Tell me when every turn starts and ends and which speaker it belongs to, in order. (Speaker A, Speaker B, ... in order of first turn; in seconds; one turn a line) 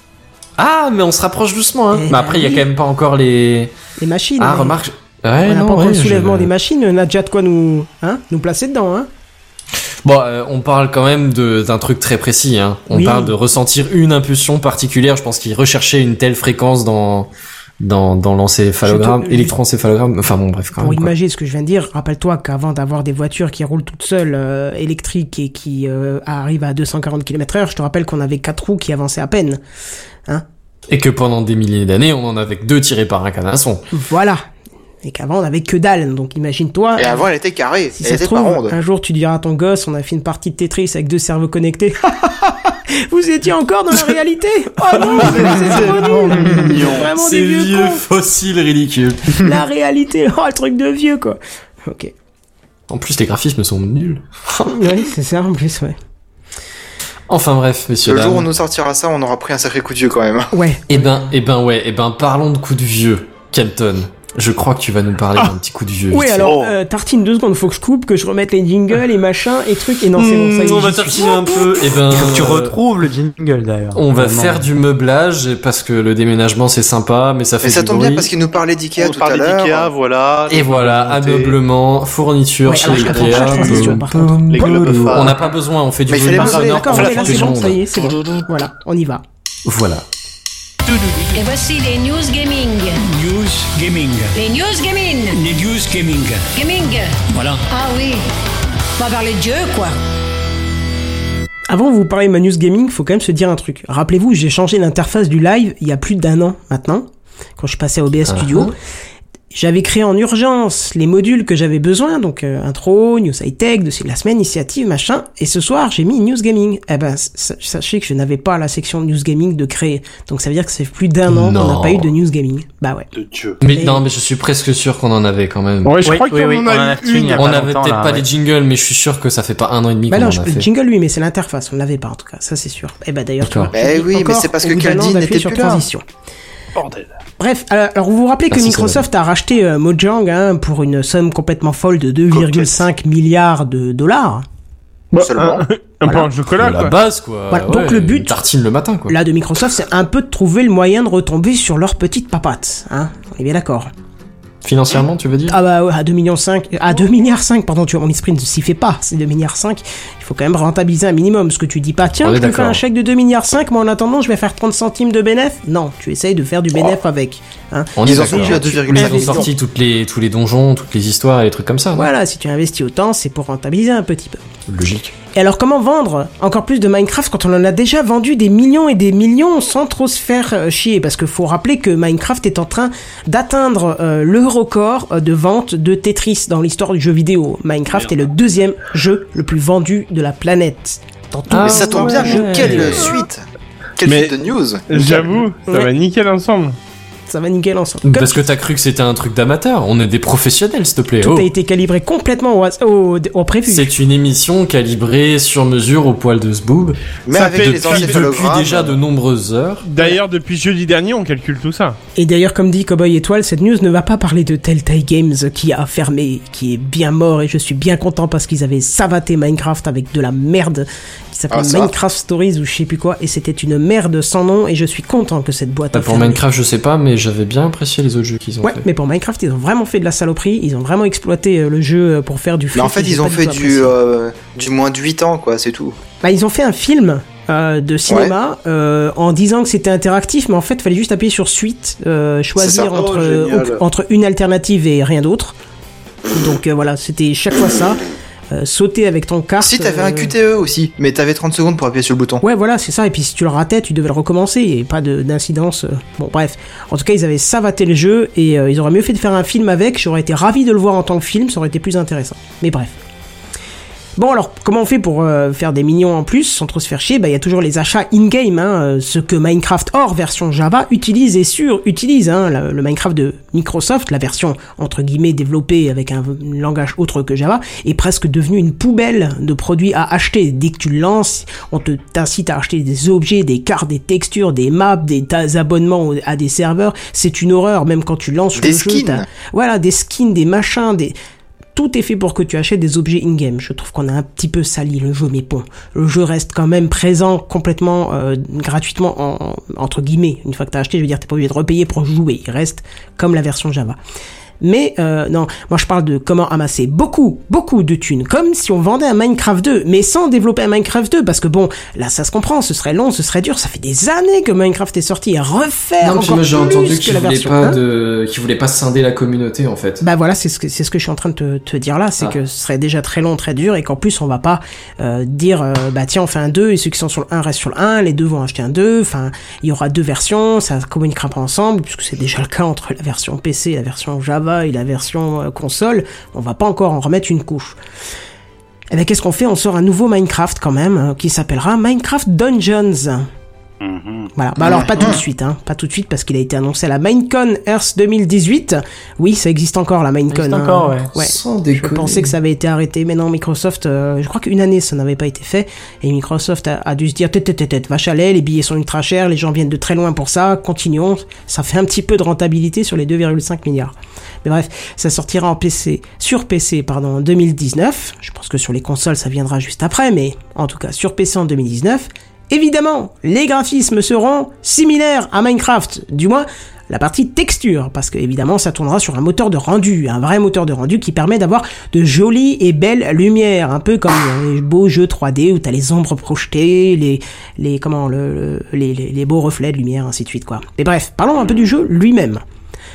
Speaker A: 0.6-3.7
Speaker B: 1.9-2.7
Speaker B: 4.0-4.8
Speaker A: 4.4-6.5
Speaker B: 5.4-9.1
Speaker A: 10.1-21.1
Speaker B: 12.9-13.4
Speaker B: 18.8-19.6
Speaker B: 20.8-29.6
Speaker A: 30.9-33.9
Speaker B: 33.9-34.4
Speaker B: 35.0-37.2
Speaker C: 37.0-38.8
Speaker B: 38.0-48.0
Speaker D: 45.0-47.1
Speaker A: 45.0-49.5
Speaker B: 49.4-52.1
Speaker A: 52.9-54.9
Speaker B: 54.7-56.0
Speaker A: 57.3-58.5
Speaker C: 58.1-60.5
Speaker B: 60.5-60.8
Speaker A: 60.9-66.5
Speaker B: 66.1-71.6
Speaker D: 66.4-66.8
Speaker A: 70.1-72.8
Speaker E: 71.4-74.7
Speaker A: 74.0-78.3
Speaker C: 77.6-79.9
Speaker D: 79.0-81.6
Speaker A: 80.5-87.8
Speaker B: 82.7-84.8
Speaker D: 82.8-85.6
Speaker C: 86.1-87.2
Speaker B: 86.3-89.2
Speaker A: 89.7-90.1
Speaker F: 90.9-91.4
Speaker G: 91.3-93.0
Speaker F: 93.0-94.4
Speaker G: 94.3-95.4
Speaker F: 95.3-96.5
Speaker G: 96.5-98.2
Speaker F: 97.3-97.6
Speaker G: 99.0-100.0
Speaker B: 101.7-108.7
Speaker A: 108.3-108.7
Speaker B: 109.5-123.1
Speaker A: 121.3-122.1
Speaker D: 123.1-123.6
Speaker A: 123.6-126.1
Speaker B: 123.7-124.0
Speaker H: 125.8-127.5
Speaker E: 126.0-128.3
Speaker A: 127.3-130.7
Speaker B: 130.1-136.0
Speaker A: 133.4-133.7
Speaker C: 133.7-135.9
Speaker D: 136.8-137.2
Speaker B: 137.4-144.4
Speaker A: 138.5-139.1
Speaker D: 142.3-142.8
Speaker H: 145.1-146.9
Speaker C: 145.2-145.7
Speaker B: 146.0-146.3
Speaker A: 146.6-149.2
Speaker B: 147.5-148.4
Speaker B: 149.1-153.9
Speaker A: 154.6-155.6
Speaker B: 155.5-169.5
Speaker A: 162.2-162.8
Speaker A: 168.0-172.1
Speaker C: 168.0-169.5
Speaker B: 171.9-174.4
Speaker A: 174.7-175.1
Speaker B: 175.3-193.1
Speaker A: 191.5-192.9
Speaker C: 191.6-193.4
Speaker H: 192.2-192.9
Speaker C: 194.0-195.4
Speaker H: 194.0-194.4
Speaker H: 194.9-196.8
Speaker B: 197.3-198.4
Speaker A: 198.0-201.5
Speaker B: 201.2-203.9
Speaker A: 203.7-209.9
Speaker C: 207.3-209.0
Speaker H: 207.3-208.3
Speaker H: 209.8-212.0
Speaker B: 212.2-226.4
Speaker C: 221.5-221.9
Speaker A: 225.9-228.9
Speaker B: 228.6-233.9
Speaker C: 232.7-236.0
Speaker B: 236.2-245.6
Speaker C: 238.1-238.3
Speaker C: 242.6-242.9
Speaker D: 242.8-243.8
Speaker B: 246.3-250.3
Speaker C: 249.6-252.4
Speaker B: 252.4-263.0
Speaker B: 264.2-291.1
Speaker C: 288.6-289.3
Speaker B: 291.8-304.0
Speaker B: 304.6-317.8
Speaker A: 316.0-320.0
Speaker B: 320.0-337.8
Speaker B: 338.9-343.3
Speaker D: 343.8-344.3
Speaker B: 344.4-392.4
Speaker C: 344.6-345.2
Speaker E: 350.3-351.1
Speaker A: 351.2-352.3